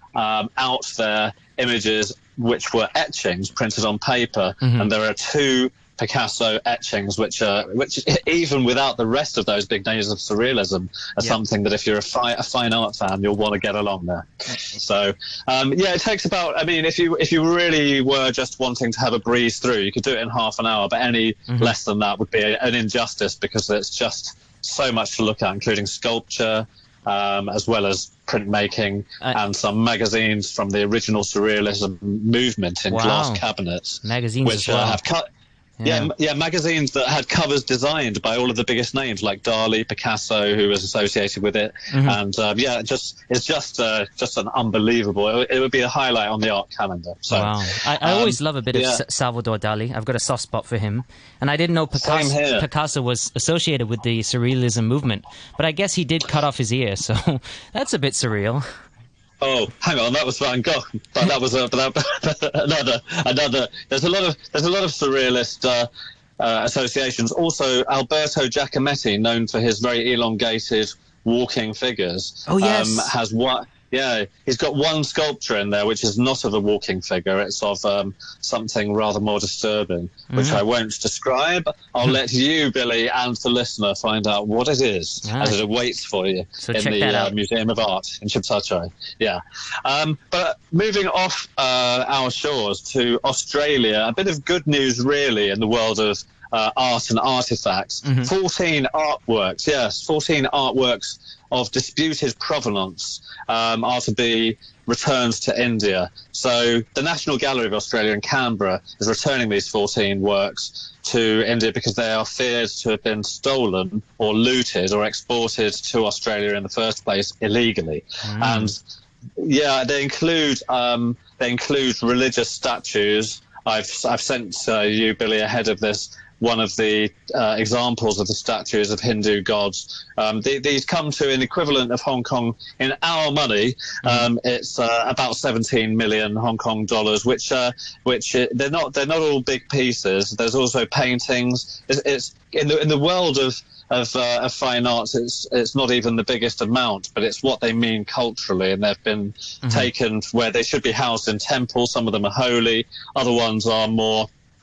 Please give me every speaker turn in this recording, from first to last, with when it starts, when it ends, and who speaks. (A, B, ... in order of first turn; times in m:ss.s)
0:00.2-0:35.2 A
0:04.6-0:04.9 B
0:32.9-0:33.4 B
0:34.0-0:35.0 B
0:35.8-0:36.1 B
0:35.8-0:49.0 A
0:41.9-0:42.2 B
0:47.3-0:58.6 B
0:51.9-0:52.7 A
0:59.4-1:58.8 A
1:12.5-1:13.1 B
1:20.3-1:20.6 B
1:25.2-1:25.6 B
1:26.6-1:27.3 B
1:38.0-1:38.3 B
1:58.2-1:58.7 B
1:59.4-2:34.3 A
2:14.0-2:14.3 B
2:29.6-2:29.9 B